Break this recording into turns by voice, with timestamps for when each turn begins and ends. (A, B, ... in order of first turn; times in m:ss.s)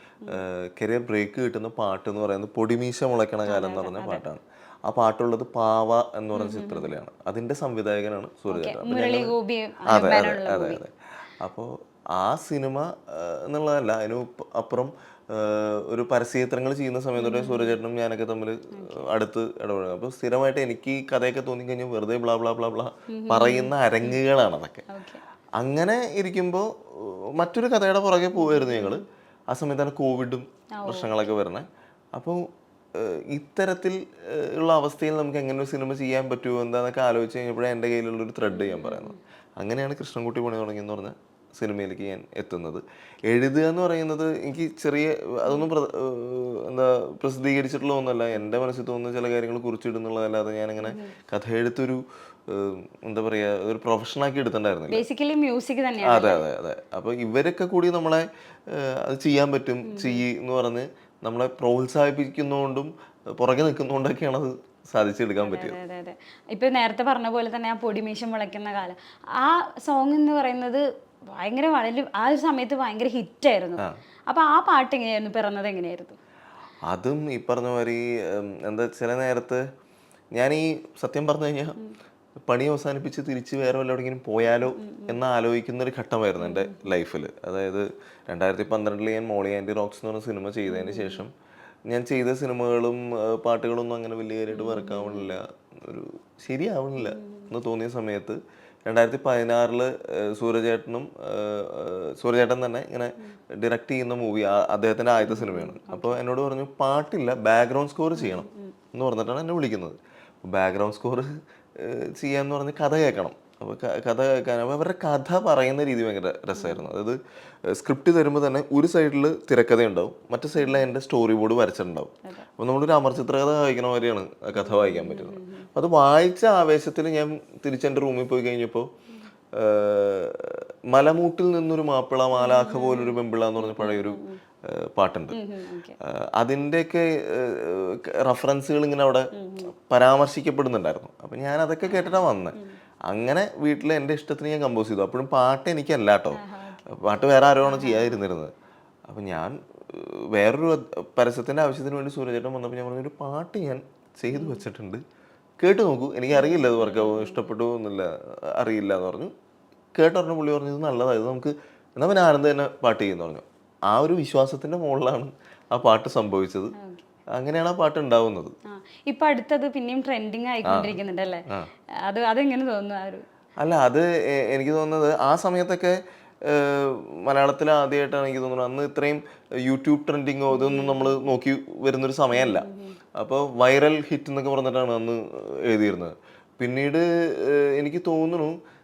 0:00.3-0:09.3 A
0:03.4-0:04.2 B
0:06.3-0:06.9 B
0:08.5-0:10.8 B
0:09.8-0:24.8 A
0:17.2-0:17.8 B
0:18.7-0:19.1 B
0:23.1-0:24.2 B
0:24.9-0:25.2 B
0:25.6-0:32.4 A
0:28.4-0:29.0 B
0:30.7-0:31.1 B
0:32.9-0:55.0 A
0:38.5-0:39.2 B
0:50.8-0:51.1 B
0:54.9-0:56.4 B
0:56.0-1:05.8 A
0:59.8-1:00.2 B
1:05.4-1:16.2 B
1:16.9-1:19.6 A
1:20.3-1:21.8 A
1:22.5-1:31.3 A
1:24.7-1:25.2 B
1:26.4-1:26.9 B
1:30.7-1:31.2 B
1:31.9-2:08.9 A
1:34.5-1:35.3 B
1:37.0-1:37.5 B
1:45.2-1:46.2 B
1:48.2-1:48.7 B
1:56.5-1:56.9 B
2:00.6-2:00.8 B
2:04.6-2:05.7 B
2:09.5-2:15.4 A
2:12.3-2:14.4 B
2:15.3-2:15.9 B
2:16.0-2:19.3 A
2:19.3-2:19.7 B
2:19.8-2:28.5 A
2:21.9-2:22.7 B
2:26.3-2:26.8 B
2:27.6-2:28.2 B
2:29.1-2:35.0 A
2:34.3-2:34.6 B
2:35.6-2:39.3 A
2:36.3-2:37.5 B
2:39.9-2:46.7 A
2:46.8-2:47.0 B
2:47.3-2:48.5 A
2:48.6-2:53.2 B
2:50.6-2:51.0 A
2:53.6-3:08.6 A
3:00.5-3:01.2 B
3:02.3-3:03.0 B